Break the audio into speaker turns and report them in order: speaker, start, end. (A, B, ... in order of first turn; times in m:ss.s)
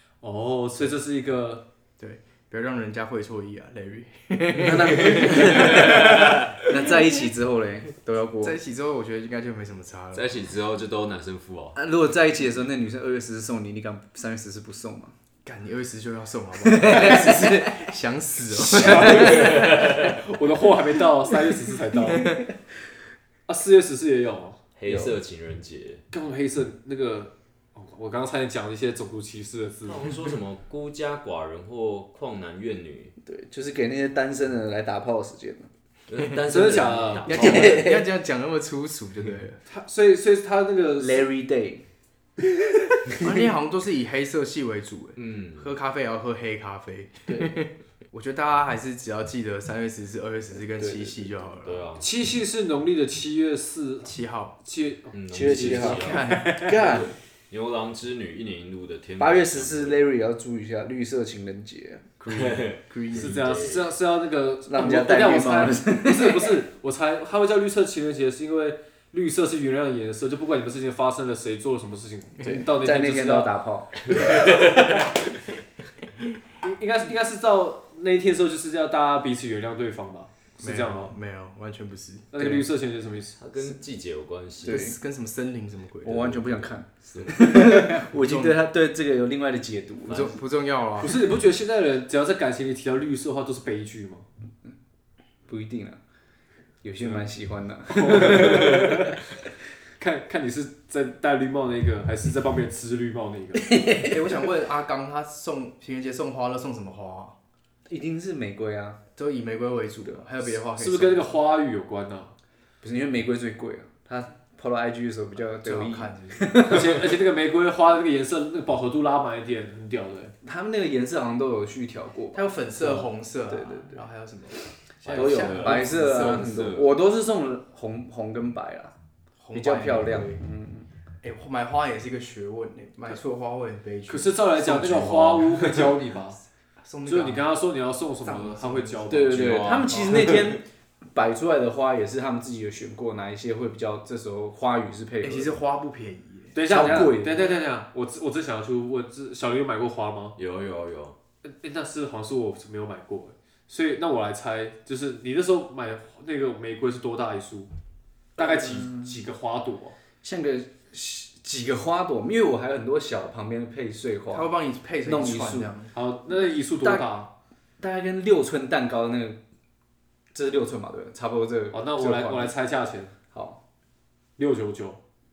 0:00.2-0:01.6 A
0:02.0-0:06.5 B
0:04.5-0:08.6 C
0:05.8-0:06.4 D
0:08.4-0:10.3 B
0:10.1-0:11.8 D
0:11.8-0:15.1 C
0:15.4-0:19.8 B
0:16.6-0:17.7 C
0:18.6-0:22.4 A
0:18.8-0:19.6 C
0:19.0-0:20.2 D
0:23.5-0:24.6 A
0:24.8-0:26.0 D
0:24.9-0:25.2 C
0:26.1-0:30.1 A
0:29.8-0:33.1 D
0:33.2-0:35.7 C
0:36.1-0:37.8 D
0:36.5-0:37.3 A
0:37.3-0:38.1 C
0:37.3-0:39.6 B
0:39.7-0:41.2 A
0:41.0-0:41.8 C
0:43.2-0:51.9 B
0:45.2-0:45.7 D
0:47.3-0:47.6 C
0:50.8-0:51.3 C
0:51.6-0:52.1 D
0:52.0-0:55.9 A
0:54.0-0:54.5 B
0:55.1-1:00.0 D
0:55.3-0:57.1 C
0:55.5-0:57.1 B
0:59.2-1:02.0 C
1:02.2-1:03.9 D
1:02.3-1:03.4 B
1:03.1-1:13.5 A
1:04.6-1:06.6 C
1:12.4-1:14.3 C
1:14.1-1:14.9 D
1:16.6-1:21.1 A
1:20.6-1:22.3 B
1:22.3-1:23.4 A
1:22.4-1:22.7 C
1:23.4-1:24.9 D
1:24.6-1:25.0 C
1:24.6-1:26.7 B
1:26.0-1:30.4 C
1:27.0-1:27.5 D
1:27.3-1:28.6 B
1:30.1-1:31.2 B
1:31.0-1:34.3 A
1:35.4-1:36.0 C
1:36.8-1:39.1 C
1:37.9-1:39.2 A
1:40.0-1:43.7 A
1:43.6-1:44.2 C
1:44.0-1:47.4 B
1:47.9-1:49.0 C
1:49.2-1:51.3 B
1:50.6-1:52.3 A
1:52.8-1:57.0 C
1:55.6-1:56.8 B
1:56.6-2:00.3 A
2:00.4-2:04.0 C
2:02.3-2:06.6 B
2:05.0-2:07.0 D
2:05.1-2:08.9 C
2:09.4-2:10.4 B
2:09.5-2:10.9 C
2:11.2-2:14.4 B
2:14.1-2:16.4 A
2:14.6-2:15.9 D
2:16.8-2:17.5 B
2:17.1-2:19.9 A
2:18.2-2:19.4 B
2:19.1-2:25.6 C
2:19.3-2:20.5 D
2:19.9-2:20.3 B
2:25.2-2:26.6 B
2:26.5-2:30.4 A
2:26.6-2:27.5 C
2:30.4-2:31.2 D
2:31.4-2:37.7 A
2:38.4-2:39.9 A
2:38.4-2:39.2 C
2:40.2-2:44.5 C
2:44.3-2:45.9 B
2:45.0-2:45.7 C
2:45.9-2:47.3 A
2:46.3-2:47.1 C
2:47.8-2:49.4 C
2:50.3-2:52.5 C
2:51.7-2:53.1 A
2:53.3-2:53.6 C
2:54.4-2:55.0 A